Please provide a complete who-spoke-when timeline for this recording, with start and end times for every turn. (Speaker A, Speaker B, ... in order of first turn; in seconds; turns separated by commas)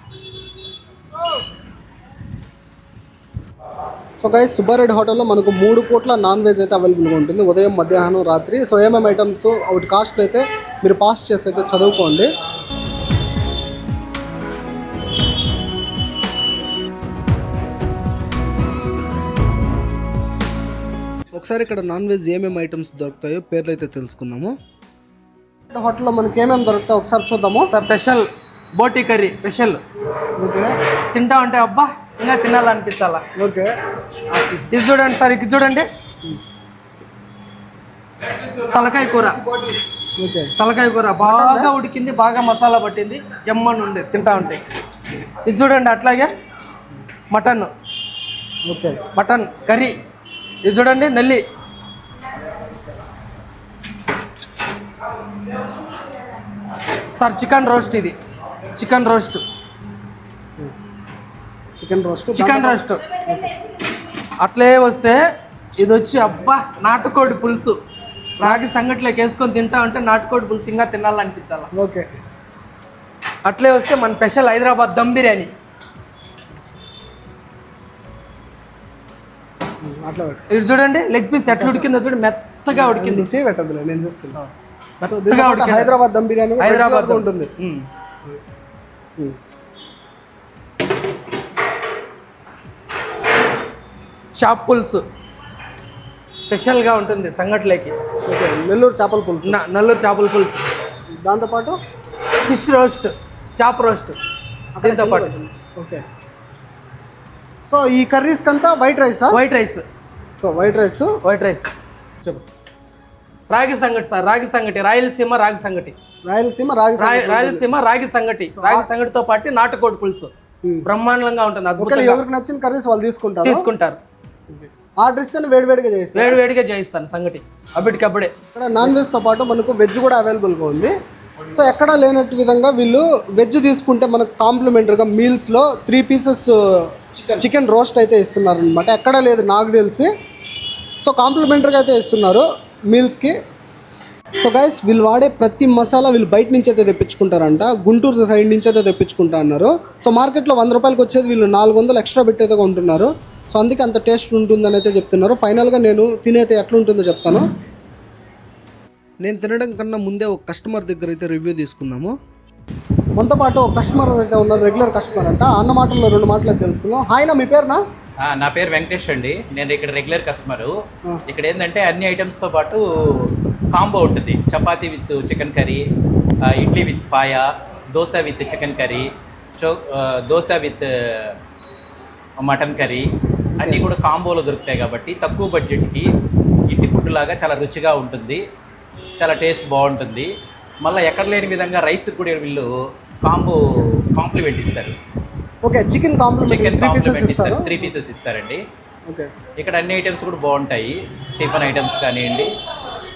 Speaker A: 4.2-12.3, Speaker A: 21.4-24.6, Speaker A: 25.7-27.7, Speaker B: 27.7-29.8, Speaker A: 30.4-30.7, Speaker B: 31.1-33.2, Speaker A: 33.4-33.7, Speaker A: 34.3-34.7, Speaker B: 34.7-35.9, Speaker B: 38.3-39.4, Speaker A: 40.2-40.5, Speaker B: 40.6-44.6, Speaker A: 41.2-41.7, Speaker B: 45.5-46.3, Speaker B: 47.3-47.7, Speaker A: 48.7-49.0, Speaker B: 49.1-50.0, Speaker B: 50.6-51.4, Speaker B: 57.1-58.2, Speaker B: 58.7-59.4, Speaker A: 61.8-63.5, Speaker B: 62.3-63.0, Speaker B: 64.4-65.2, Speaker B: 65.8-67.8, Speaker B: 68.4-71.7, Speaker A: 68.4-68.7, Speaker A: 71.8-72.1, Speaker B: 73.5-75.5, Speaker A: 79.8-80.4, Speaker B: 80.5-83.3, Speaker A: 81.5-81.9, Speaker A: 82.7-84.4, Speaker B: 84.4-86.0, Speaker A: 85.0-87.5, Speaker B: 86.6-87.9, Speaker B: 94.3-95.0, Speaker B: 96.5-98.0, Speaker A: 98.2-99.6, Speaker B: 99.5-100.6, Speaker A: 101.2-101.8, Speaker B: 102.5-104.2, Speaker A: 104.8-106.0, Speaker B: 104.8-105.3, Speaker A: 107.7-109.4, Speaker B: 109.3-109.8, Speaker A: 110.4-111.1, Speaker B: 111.2-111.7, Speaker B: 113.5-116.0, Speaker A: 116.2-117.7, Speaker B: 117.0-120.3, Speaker A: 118.5-118.9, Speaker B: 120.9-122.2, Speaker A: 121.8-123.6, Speaker B: 123.4-124.0, Speaker A: 124.5-126.4, Speaker B: 126.2-128.3, Speaker A: 128.6-130.9, Speaker A: 131.5-140.1, Speaker A: 141.0-143.4, Speaker A: 144.4-157.4, Speaker A: 159.2-162.2, Speaker A: 163.2-167.8, Speaker C: 168.2-170.7, Speaker C: 171.3-175.8, Speaker C: 176.5-181.4, Speaker C: 182.4-183.1, Speaker A: 183.6-183.8, Speaker C: 183.6-186.1, Speaker C: 186.7-188.4, Speaker C: 189.2-190.3, Speaker C: 190.8-192.7, Speaker C: 193.3-193.6, Speaker C: 194.1-194.9, Speaker A: 195.6-197.9, Speaker C: 196.4-198.6, Speaker C: 199.6-202.5